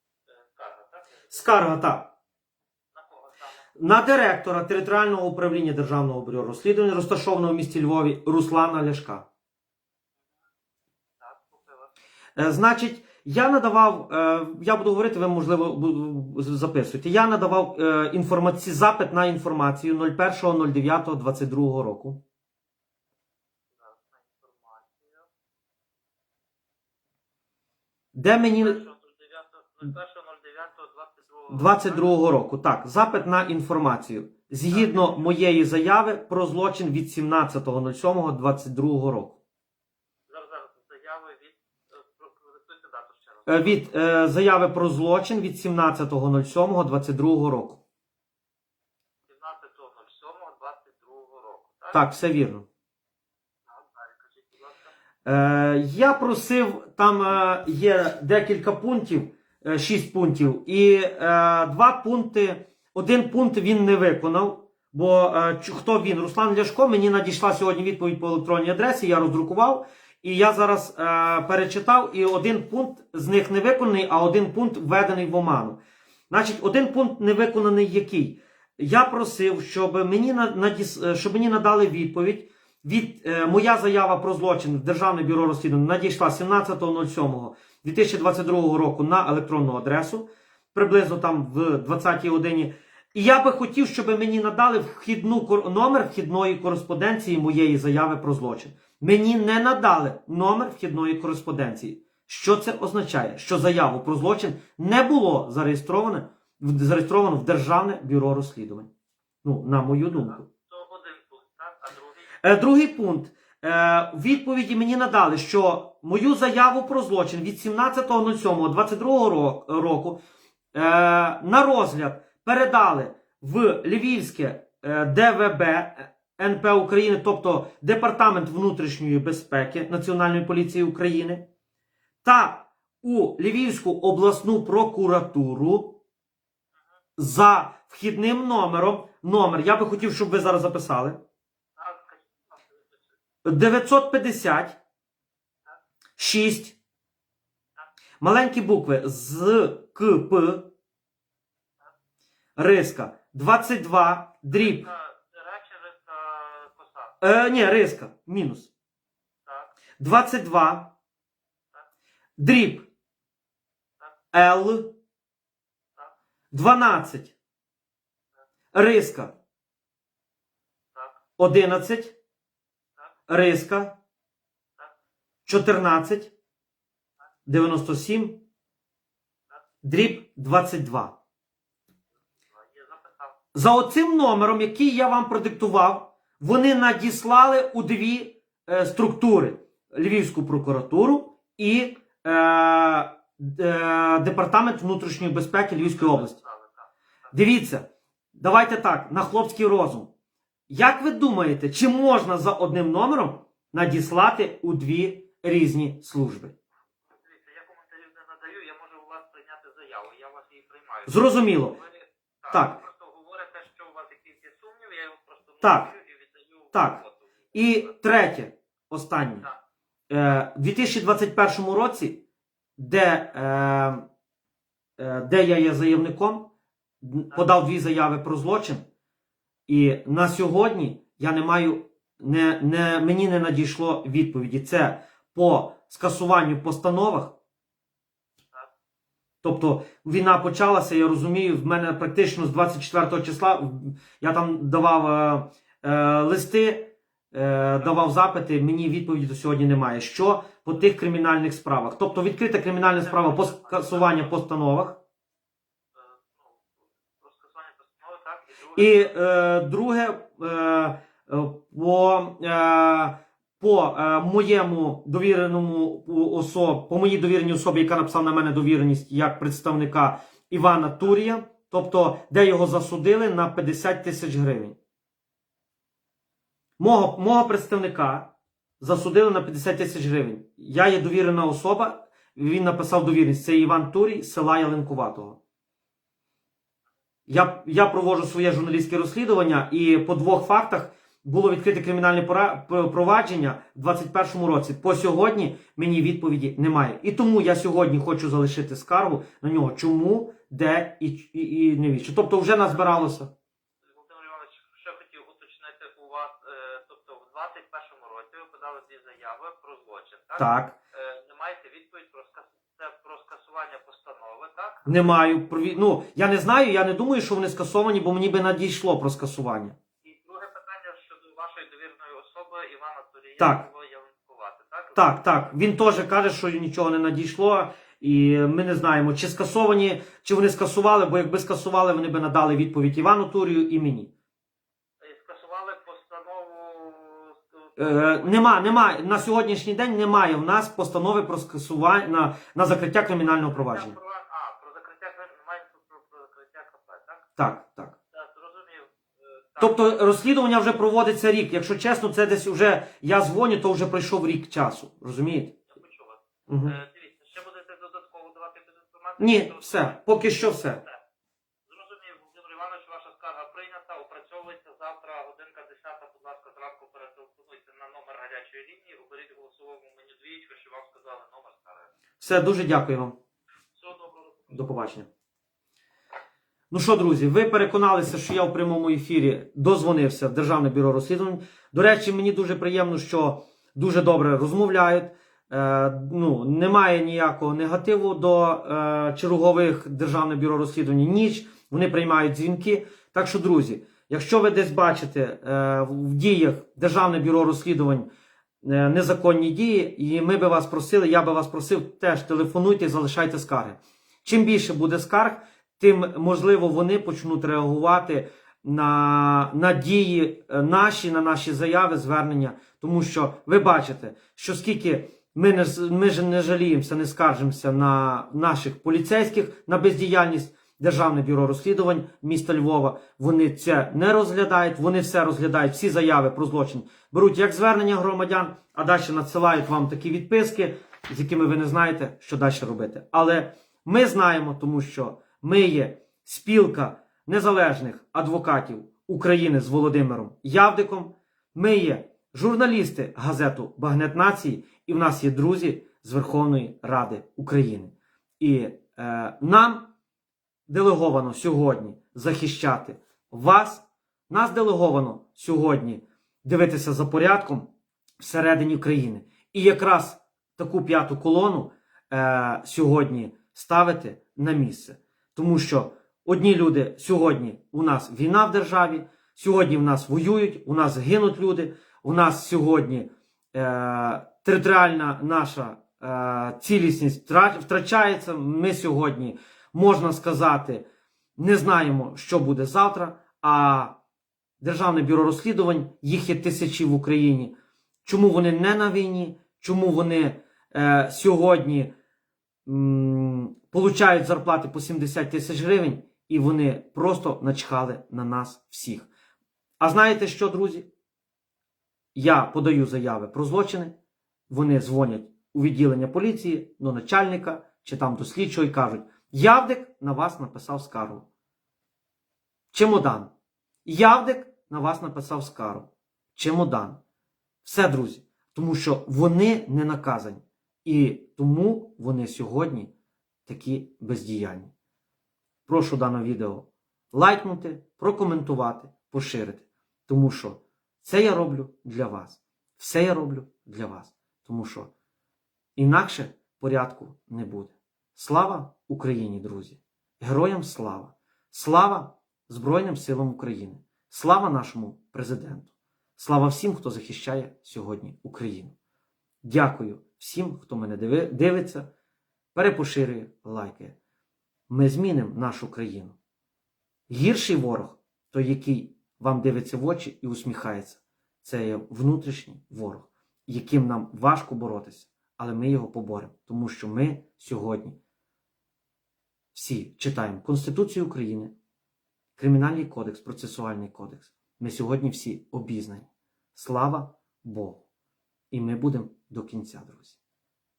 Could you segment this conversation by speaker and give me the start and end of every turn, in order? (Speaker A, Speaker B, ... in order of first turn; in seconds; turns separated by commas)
Speaker A: 0.3-1.4, Speaker B: 1.3-2.1, Speaker A: 2.9-3.6, Speaker B: 3.8-9.2, Speaker A: 11.2-11.9, Speaker B: 12.3-22.2, Speaker A: 23.7-25.3, Speaker B: 28.1-28.8, Speaker A: 28.6-32.2, Speaker B: 31.5-39.4, Speaker A: 34.7-35.3, Speaker A: 40.3-43.9, Speaker B: 43.5-47.8, Speaker A: 49.3-52.0, Speaker B: 51.9-52.6, Speaker A: 53.7-54.9, Speaker B: 55.2-108.9, Speaker B: 109.4-110.4, Speaker A: 110.1-112.4, Speaker B: 112.4-120.2, Speaker B: 120.7-131.4, Speaker B: 132.2-136.0, Speaker B: 137.2-141.2, Speaker A: 141.8-142.8, Speaker B: 143.4-144.8, Speaker B: 146.2-146.8, Speaker B: 148.2-150.7, Speaker B: 152.6-154.9, Speaker A: 154.5-157.2, Speaker B: 157.2-158.7, Speaker A: 159.4-159.8, Speaker B: 160.0-160.9, Speaker B: 162.4-162.9, Speaker B: 164.3-164.9, Speaker B: 166.5-167.3, Speaker B: 168.7-169.3, Speaker A: 170.9-171.2, Speaker B: 171.4-172.2, Speaker B: 173.3-173.9, Speaker B: 175.4-176.3, Speaker B: 177.4-178.4, Speaker B: 179.8-181.2, Speaker A: 182.6-183.3, Speaker B: 183.5-196.4, Speaker A: 195.8-197.3, Speaker B: 197.3-200.1, Speaker B: 200.7-206.5, Speaker A: 207.2-217.9, Speaker B: 211.1-211.8, Speaker B: 212.5-212.8, Speaker B: 215.6-215.9, Speaker B: 216.7-217.0, Speaker B: 217.5-219.4, Speaker B: 220.1-222.2, Speaker B: 222.8-224.0, Speaker B: 225.0-226.5, Speaker B: 227.0-228.8, Speaker B: 229.7-237.3, Speaker B: 239.4-255.0, Speaker A: 252.9-254.4, Speaker A: 255.9-259.1, Speaker B: 258.8-274.8, Speaker B: 276.8-285.4, Speaker B: 287.3-303.3, Speaker A: 303.8-315.4, Speaker B: 310.4-310.7, Speaker B: 314.9-319.8, Speaker A: 320.0-325.8, Speaker B: 323.4-323.6, Speaker B: 324.9-334.1, Speaker A: 335.0-338.8, Speaker B: 337.8-343.9, Speaker A: 343.4-347.3, Speaker B: 347.4-347.9, Speaker A: 348.1-350.2, Speaker B: 349.6-355.5, Speaker A: 355.7-361.0, Speaker B: 356.5-356.8, Speaker B: 359.2-360.8, Speaker A: 361.7-371.9, Speaker B: 372.2-373.1, Speaker A: 373.8-374.6, Speaker B: 374.5-375.1, Speaker B: 376.7-398.1, Speaker B: 398.6-449.9, Speaker B: 450.7-457.7, Speaker B: 458.2-480.9, Speaker B: 481.4-483.9, Speaker B: 484.6-491.9, Speaker B: 492.6-499.1, Speaker B: 499.8-500.9, Speaker B: 502.1-503.9, Speaker B: 504.5-511.2, Speaker B: 512.7-513.3, Speaker B: 513.9-517.0, Speaker B: 517.6-522.9, Speaker B: 523.5-524.7, Speaker B: 525.7-534.9, Speaker B: 535.8-548.7, Speaker B: 549.4-551.9, Speaker B: 552.5-553.9, Speaker B: 554.7-556.1, Speaker B: 557.1-568.0, Speaker B: 569.5-571.5, Speaker B: 572.4-577.8, Speaker B: 578.5-580.1